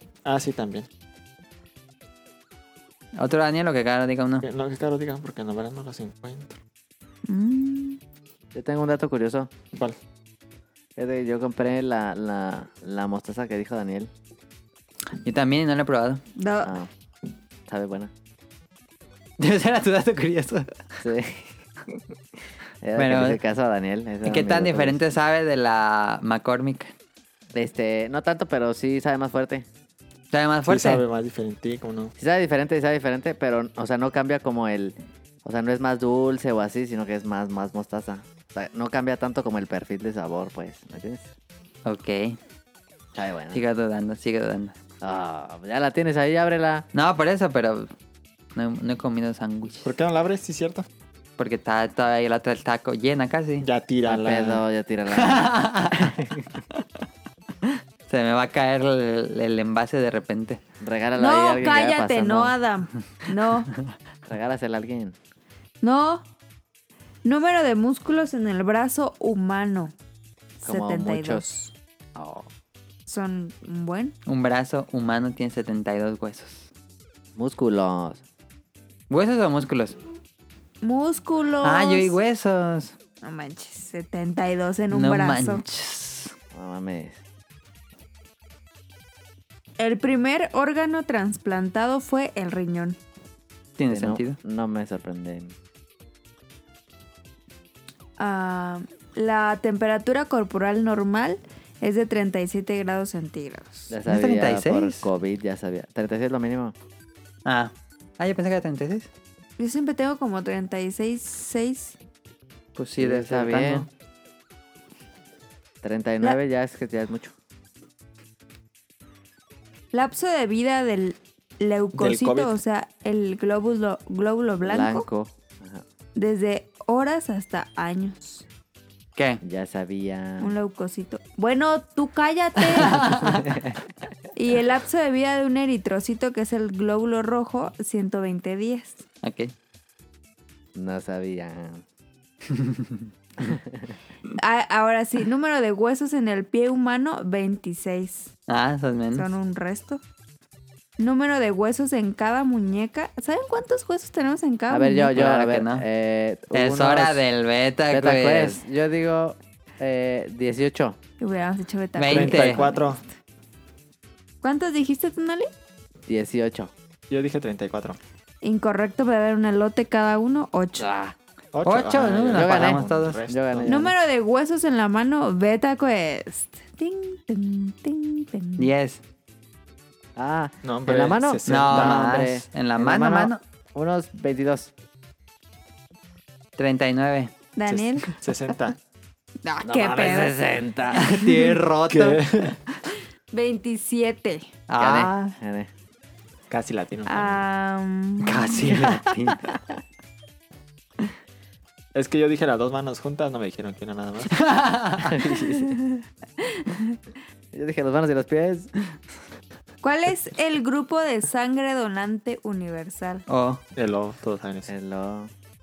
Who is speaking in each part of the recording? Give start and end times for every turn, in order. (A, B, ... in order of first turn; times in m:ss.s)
0:00.2-0:00.9 A
0:03.2-0:04.4 B
0:04.4-0:06.6 A
0:07.2-0:08.0 C
0:08.5-0:09.5 D
0:11.0-0:14.1 D
0:15.2-0:16.2 B
0:16.4-0:16.7 C
0:16.6-0:16.9 D
0:17.7-0:18.1 D
0:19.4-0:20.7 B
0:21.0-0:21.5 D
0:22.8-0:25.0 D
0:23.0-0:23.4 B
0:24.2-0:26.9 B
0:27.5-0:29.6 D
0:30.3-0:31.0 B
0:30.6-0:32.1 A
0:32.2-0:41.3 D
0:41.8-0:42.4 B
0:43.1-0:43.6 D
0:43.5-0:44.7 B
0:45.0-0:46.9 D
0:46.9-0:47.9 B
0:48.5-0:49.9 B
0:49.8-0:50.9 A
0:51.4-0:53.6 B
0:53.6-0:54.6 A
0:54.0-0:56.4 D
0:55.2-0:56.1 B
0:57.6-1:00.6 B
1:00.8-1:02.5 D
1:01.2-1:03.7 C
1:04.3-1:05.2 D
1:05.8-1:06.2 C
1:07.2-1:09.9 C
1:10.6-1:11.5 D
1:10.6-1:11.7 C
1:12.2-1:12.5 D
1:13.1-1:14.1 C
1:14.3-1:16.7 B
1:17.4-1:18.2 D
1:19.1-1:20.0 B
1:20.8-1:22.1 C
1:21.6-1:23.0 B
1:23.2-1:25.6 C
1:24.9-1:26.3 B
1:26.5-1:27.2 D
1:29.8-1:33.0 C
1:33.8-1:34.4 B
1:33.9-1:35.5 D
1:38.2-1:43.9 C
1:43.9-1:46.7 D
1:44.0-1:45.1 B
1:47.4-1:49.1 B
1:49.6-1:52.0 C
1:52.8-1:53.9 B
1:53.0-1:53.9 D
1:55.8-1:57.3 D
1:59.9-2:05.1 C
2:01.9-2:02.6 A
2:04.6-2:05.8 D
2:06.1-2:08.4 C
2:09.4-2:10.5 D
2:10.4-2:13.0 C
2:12.7-2:13.6 B
2:13.0-2:13.8 D
2:14.3-2:19.0 C
2:19.2-2:19.5 B
2:20.7-2:21.8 D
2:22.5-2:23.6 B
2:23.4-2:23.9 D
2:24.4-2:28.3 C
2:28.5-2:29.2 B
2:29.1-2:30.0 C
2:31.0-2:35.1 C
2:34.7-2:37.2 D
2:35.1-2:35.8 B
2:36.5-2:38.6 B
2:37.9-2:41.0 D
2:41.2-2:43.0 C
2:42.0-2:42.6 B
2:42.1-2:43.0 A
2:44.4-2:45.5 C
2:46.1-2:46.7 D
2:47.1-2:48.0 A
2:48.4-2:50.9 C
2:50.8-2:51.1 D
2:51.5-2:53.7 A
2:51.6-2:53.2 B
2:52.3-2:54.0 D
2:53.6-2:58.7 C
2:58.6-2:59.0 B
3:00.2-3:04.7 D
3:00.6-3:02.1 A
3:01.5-3:03.4 B
3:06.6-3:07.3 B
3:07.6-3:08.1 C
3:07.6-3:08.8 A
3:09.4-3:10.4 C
3:09.6-3:11.1 D
3:09.8-3:10.1 A
3:10.9-3:12.2 B
3:11.9-3:12.6 A
3:13.3-3:14.5 C
3:14.7-3:15.4 B
3:14.8-3:15.7 D
3:16.5-3:17.4 A
3:17.1-3:18.8 C
3:18.2-3:19.5 B
3:18.7-3:19.6 D
3:21.9-3:24.4 A
3:24.4-3:25.2 B
3:25.0-3:25.7 D
3:25.5-3:27.0 C
3:27.5-3:28.7 D
3:29.8-3:33.2 C
3:33.3-3:33.6 B
3:33.7-3:34.7 A
3:34.7-3:35.3 D